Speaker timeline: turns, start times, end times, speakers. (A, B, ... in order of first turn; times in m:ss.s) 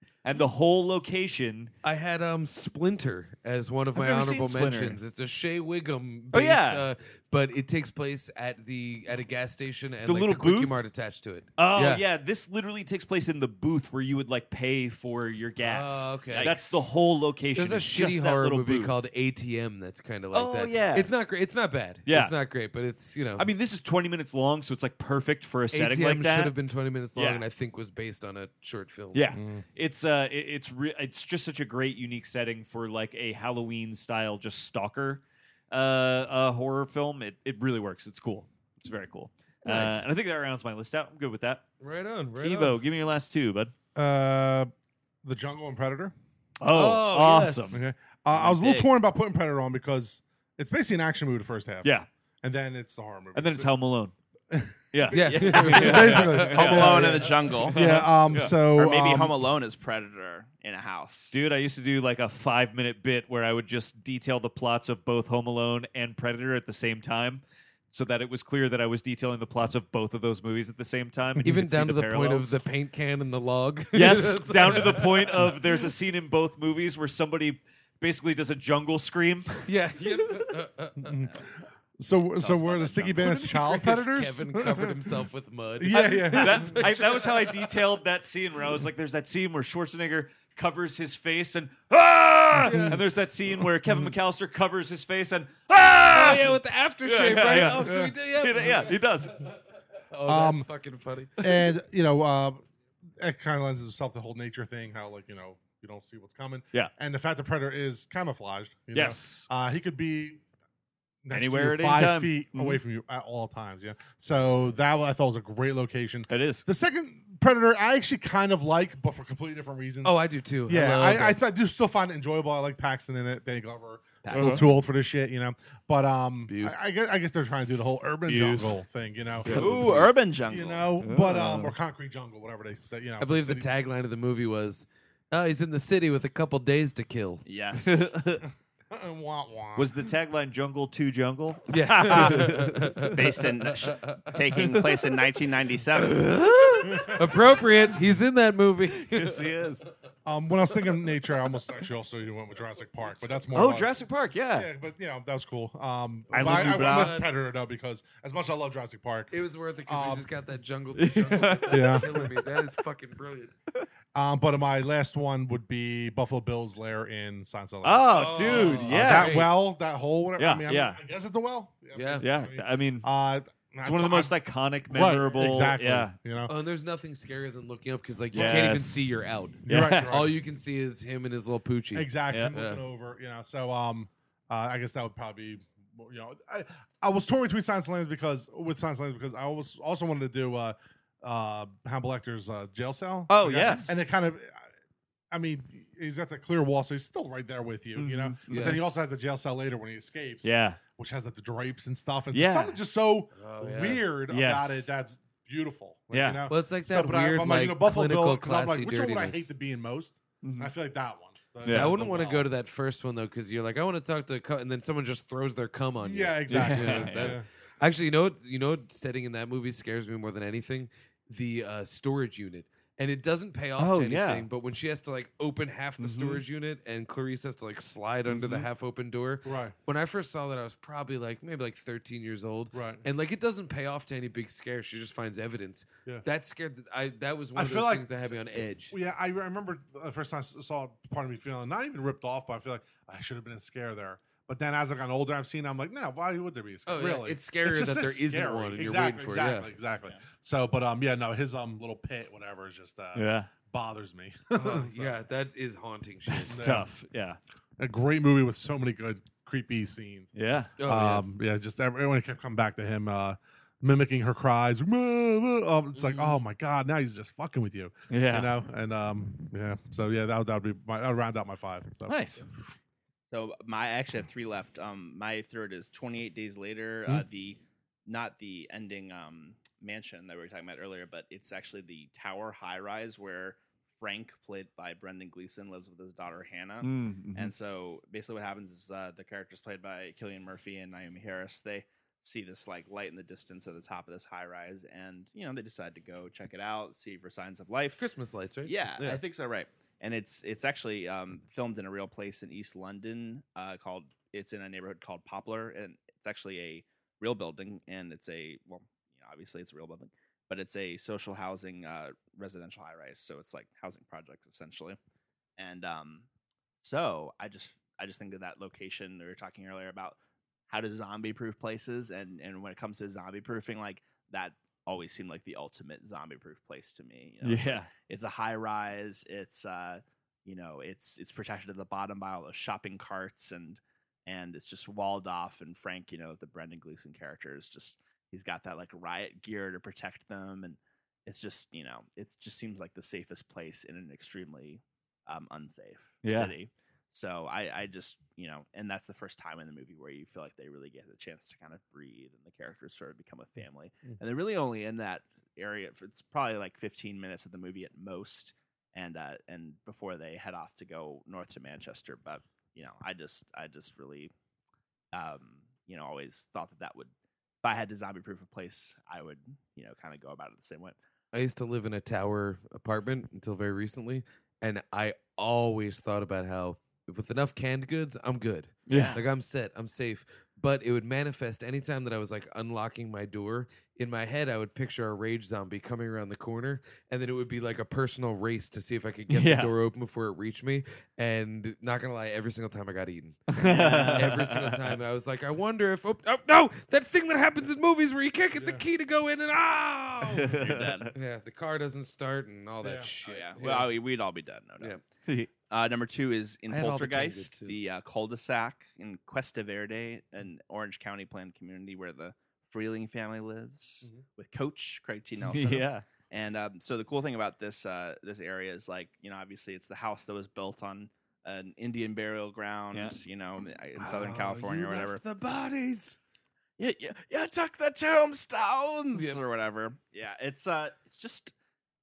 0:00.2-0:01.7 A
0:01.8-0:12.0 B
0:03.9-0:05.0 A
0:06.3-0:06.9 A
0:10.1-0:10.8 A
0:11.6-0:19.0 A
0:15.6-0:16.5 B
0:16.3-0:16.9 C
0:17.6-0:23.4 B
0:20.3-0:21.1 A
0:22.1-0:22.3 A
0:23.4-0:26.6 A
0:25.7-0:29.3 B
0:27.2-0:27.4 A
0:29.1-0:41.7 A
0:29.3-0:29.6 D
0:39.6-0:40.0 B
0:41.8-0:42.8 B
0:42.4-0:43.7 A
0:44.0-0:44.7 D
0:45.2-0:46.1 D
0:46.6-0:47.8 A
0:46.7-0:47.8 B
0:47.7-0:51.9 D
0:48.3-0:48.9 C
0:52.4-0:53.7 D
0:53.4-0:54.1 A
0:54.5-0:59.4 D
0:54.9-0:58.6 A
0:55.1-0:57.3 B
0:55.3-0:58.0 C
0:58.7-1:01.4 C
1:01.3-1:12.6 A
1:11.4-1:15.6 B
1:13.9-1:20.4 A
1:19.7-1:21.1 B
1:21.0-1:21.4 D
1:22.0-1:25.1 D
1:22.4-1:23.5 C
1:23.2-1:27.6 B
1:25.8-1:26.8 D
1:25.9-1:39.4 A
1:32.6-1:33.0 D
1:32.6-1:33.0 B
1:36.1-1:39.0 B
1:37.8-1:38.1 D
1:40.1-1:41.5 B
1:40.2-1:40.7 D
1:41.4-1:42.6 D
1:43.2-1:50.4 D
1:48.9-1:49.5 A
1:51.2-2:13.7 D
1:51.3-1:52.8 A
1:56.3-1:56.6 A
2:00.0-2:01.4 B
2:04.2-2:04.7 C
2:04.3-2:04.6 A
2:06.5-2:06.8 B
2:08.3-2:08.8 A
2:09.4-2:09.9 B
2:09.5-2:10.0 A
2:09.5-2:10.9 C
2:11.0-2:11.5 A
2:11.3-2:11.7 B
2:13.2-2:17.4 B
2:17.5-2:18.1 C
2:17.7-2:18.5 A
2:18.9-2:20.0 D
2:19.8-2:23.4 A
2:21.7-2:23.3 B
2:22.0-2:22.5 C
2:23.0-2:26.3 C
2:23.8-2:24.6 B
2:24.4-2:25.2 A
2:26.2-2:29.4 B
2:26.8-2:27.1 A
2:26.9-2:27.2 D
2:28.9-2:29.9 A
2:30.2-2:33.9 D
2:33.5-2:34.7 A
2:34.5-2:39.3 D
2:36.3-2:37.2 A
2:36.3-2:37.3 B
2:39.3-2:43.5 B
2:39.9-2:40.3 D
2:41.0-2:42.4 A
2:41.7-2:42.2 D
2:44.1-2:54.3 D
2:47.8-2:49.6 A
2:48.1-2:49.5 B
2:50.4-2:51.0 A
2:51.9-2:52.3 B
2:52.2-2:53.1 A
2:53.8-2:56.2 A
2:54.9-2:56.5 D
2:56.5-3:02.8 B
2:58.3-2:59.1 A
2:59.6-3:00.3 D
2:59.7-3:00.3 A
3:01.9-3:14.6 D
3:02.3-3:02.6 A
3:13.3-3:14.0 A
3:15.3-3:32.4 D
3:18.0-3:18.8 A
3:18.5-3:18.8 B
3:20.4-3:20.8 A
3:22.3-3:22.8 A
3:23.4-3:24.1 B
3:24.3-3:24.9 A
3:26.1-3:26.5 A
3:26.5-3:29.5 B
3:30.4-3:30.7 A
3:31.6-3:32.0 A
3:31.6-3:59.0 B
3:36.0-3:37.4 D
3:36.5-3:37.4 A
3:43.8-3:44.5 A
3:46.0-3:46.4 A
3:48.3-3:48.7 A
3:49.4-3:49.8 D
3:52.7-3:53.0 D
3:57.6-3:58.1 D
3:58.9-4:15.1 D
4:06.9-4:09.7 B
4:13.2-4:13.5 A
4:14.6-4:16.7 B
4:16.3-4:17.4 A
4:16.5-4:16.9 D
4:17.8-4:20.3 D
4:20.4-4:20.7 A
4:20.8-4:21.2 B
4:20.8-4:32.2 D
4:28.1-4:28.6 A
4:32.1-4:32.5 A
4:33.3-4:58.0 C
4:46.8-4:47.5 A
4:58.0-4:59.2 B
4:58.6-5:15.0 C
5:15.6-5:16.3 C
5:16.8-5:20.2 C
5:20.7-6:04.3 C
5:27.4-5:27.9 A
5:46.2-5:46.5 A
6:05.1-6:07.1 C
6:07.6-6:11.0 C
6:11.3-6:40.6 B
6:18.9-6:19.2 A
6:18.9-6:19.2 C
6:29.3-6:29.7 A
6:33.5-6:35.0 A
6:33.6-6:34.3 C
6:38.6-6:38.8 D
6:40.4-6:41.1 A
6:40.5-6:41.1 C
6:41.1-6:44.0 B
6:42.8-6:43.1 D
6:43.2-6:45.0 C
6:45.7-7:05.2 C
6:46.7-6:47.8 B
6:55.4-6:56.1 A
7:02.9-7:03.2 A
7:04.0-7:06.2 B
7:06.8-7:11.5 C
7:09.1-7:09.4 B